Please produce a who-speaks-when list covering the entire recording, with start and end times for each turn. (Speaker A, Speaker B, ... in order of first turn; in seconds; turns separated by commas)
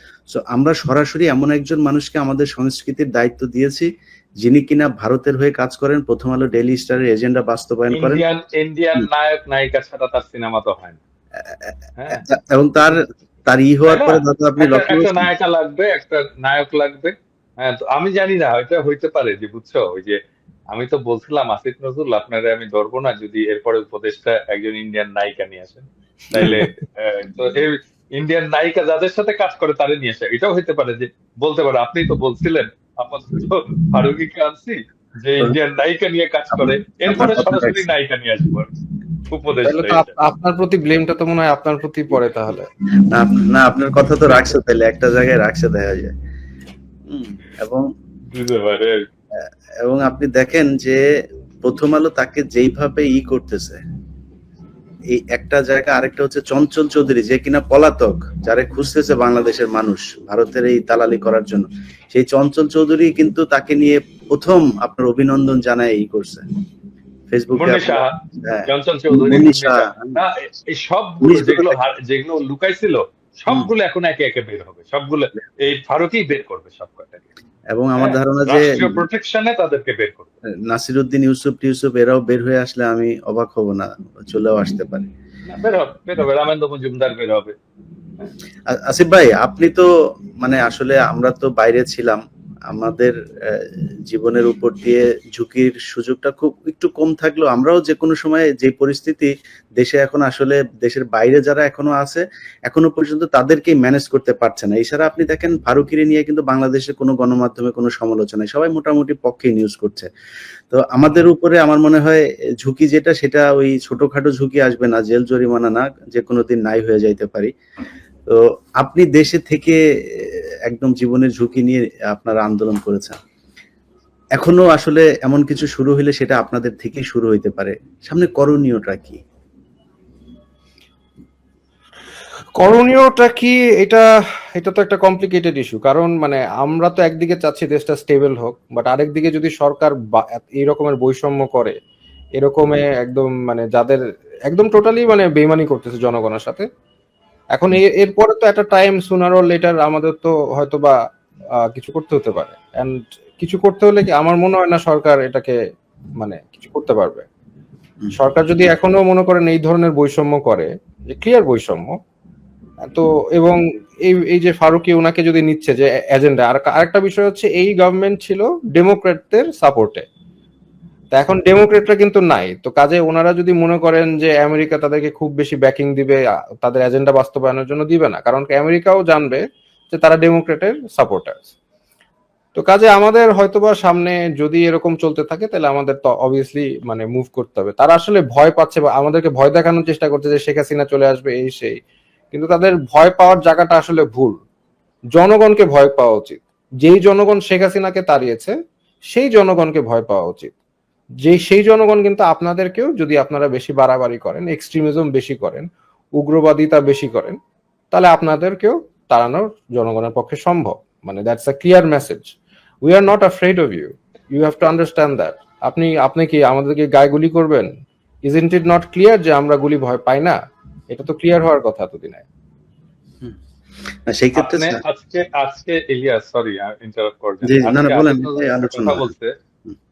Speaker A: 0.3-3.9, Speaker A: 4.4-8.2, Speaker B: 7.9-11.0, Speaker A: 11.4-15.3, Speaker B: 12.0-12.2, Speaker B: 13.9-20.2, Speaker B: 20.7-38.7, Speaker A: 26.3-26.7, Speaker A: 36.5-37.8, Speaker B: 39.3-40.1, Speaker C: 39.6-42.7, Speaker A: 43.1-46.1, Speaker A: 47.1-47.8, Speaker B: 48.3-49.0, Speaker A: 49.4-51.0, Speaker A: 51.6-53.8, Speaker A: 55.1-66.4, Speaker A: 67.3-70.2, Speaker B: 67.6-68.1, Speaker B: 68.7-77.3, Speaker A: 71.2-71.8, Speaker A: 77.7-79.0, Speaker B: 78.0-80.3, Speaker A: 80.7-85.1, Speaker B: 85.5-87.5, Speaker A: 88.8-89.9, Speaker A: 90.4-92.2, Speaker A: 92.7-110.1, Speaker A: 110.7-117.5, Speaker A: 118.3-123.2, Speaker A: 124.4-129.2, Speaker C: 132.6-134.1, Speaker C: 134.6-141.8, Speaker C: 142.4-146.7, Speaker C: 147.5-151.0, Speaker C: 151.7-155.6, Speaker C: 156.2-157.2, Speaker C: 158.1-161.9, Speaker C: 162.8-170.1, Speaker C: 171.1-181.5, Speaker C: 182.5-191.8, Speaker C: 192.3-194.4, Speaker C: 195.2-198.5, Speaker C: 199.1-200.5, Speaker C: 201.2-207.4, Speaker C: 207.9-217.7, Speaker C: 218.2-220.4, Speaker C: 220.9-222.2, Speaker A: 224.1-224.8, Speaker B: 224.3-229.3, Speaker A: 227.4-229.1